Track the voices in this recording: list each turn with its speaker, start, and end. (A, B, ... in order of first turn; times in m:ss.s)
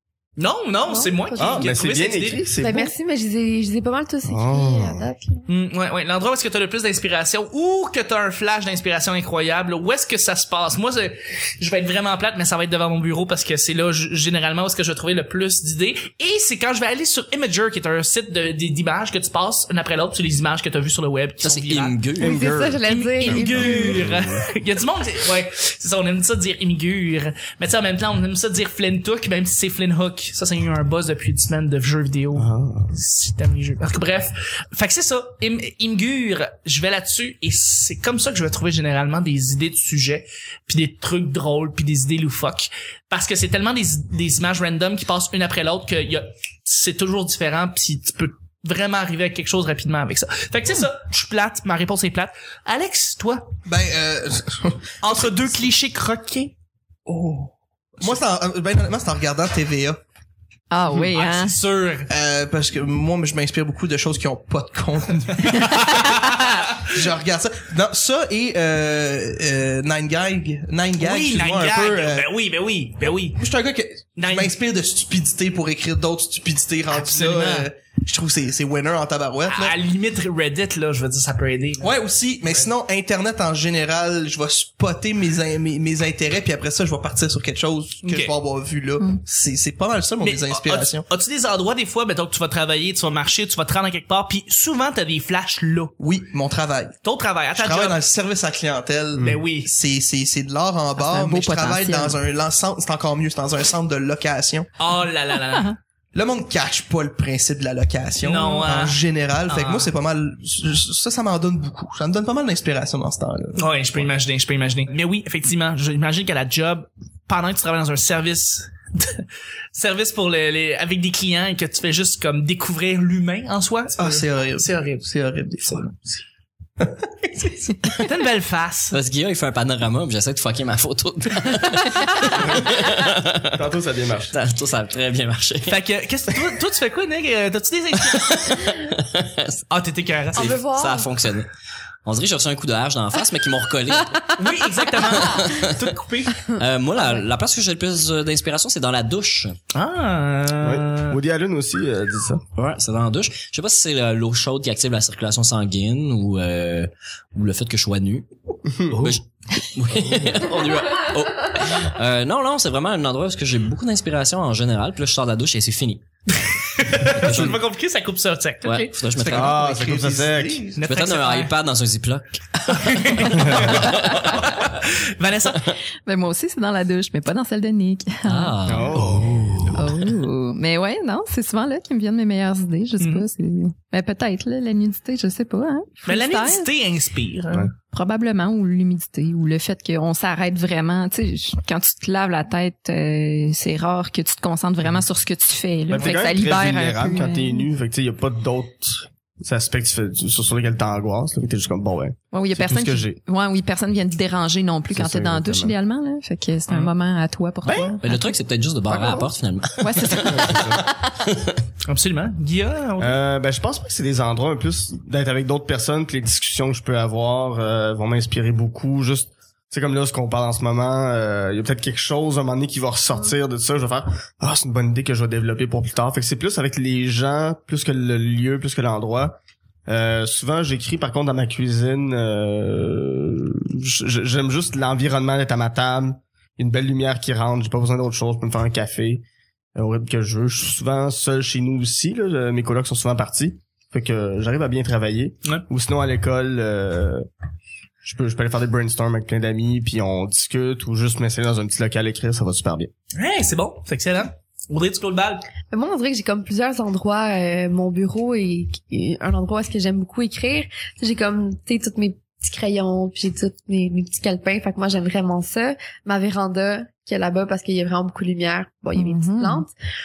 0:00.4-0:02.4 A
0:00.9-0:01.7 B
0:01.4-0:02.9 C
0:02.6-0:05.4 B
0:04.2-0:05.1 C
0:05.5-0:22.0 A
0:21.4-0:22.6 D
0:22.2-0:24.0 B
0:22.3-0:24.5 C
0:22.8-0:53.6 A
0:32.3-0:32.9 C
0:53.7-0:55.5 E
0:55.0-0:56.5 A
0:57.1-1:00.0 E
1:00.7-1:01.6 F
1:00.9-1:02.1 A
1:02.1-1:06.1 E
1:05.5-1:06.3 A
1:06.9-1:12.3 E
1:11.0-1:13.4 A
1:13.4-1:19.8 E
1:14.2-1:14.5 A
1:16.9-1:17.7 A
1:19.5-1:22.7 A
1:21.8-1:31.0 E
1:28.0-1:28.3 A
1:30.2-1:35.9 A
1:36.0-1:37.0 E
1:37.0-1:38.0 A
1:37.5-1:44.7 E
1:39.2-1:39.7 A
1:41.0-1:42.1 F
1:44.8-1:45.8 A
1:46.1-1:54.1 E
1:48.2-1:49.0 A
1:49.5-1:49.9 A
1:53.6-2:05.1 A
2:04.0-2:06.0 E
2:05.6-2:05.9 A
2:06.8-2:07.6 E
2:08.0-2:09.0 A
2:08.9-2:13.6 D
2:12.4-2:12.8 C
2:13.5-2:14.4 C
2:14.3-2:15.8 D
2:15.7-2:18.4 A
2:18.0-2:19.6 D
2:19.7-2:20.6 A
2:20.3-2:21.1 B
2:20.3-2:21.5 D
2:22.0-2:24.2 D
2:24.4-2:26.4 A
2:25.0-2:25.7 D
2:26.6-2:29.6 D
2:29.7-2:31.2 A
2:30.6-2:32.4 C
2:32.6-2:38.3 D
2:38.7-2:39.2 C
2:38.9-2:46.0 D
2:46.4-2:48.9 A
2:47.1-2:47.6 D
2:48.6-2:49.6 D
2:49.2-2:50.8 E
2:49.3-2:50.6 C
2:50.8-2:51.5 A
2:50.9-2:54.5 D
2:52.7-2:55.6 A
2:56.1-2:58.6 F
2:58.3-3:00.0 D
2:58.7-2:59.7 C
2:59.7-3:06.7 F
3:03.0-3:03.3 A
3:06.0-3:07.7 A
3:07.9-3:17.7 F
3:15.9-3:23.2 C
3:16.0-3:16.3 A
3:22.3-3:31.2 F
3:24.9-3:25.8 C
3:27.6-3:28.0 C
3:27.7-3:30.7 D
3:30.3-3:30.8 C
3:31.9-3:33.2 A
3:33.0-3:59.2 C
3:59.8-4:07.2 C
4:08.0-4:12.9 C
4:13.2-4:15.4 A
4:15.7-4:29.7 B
4:29.0-4:29.6 F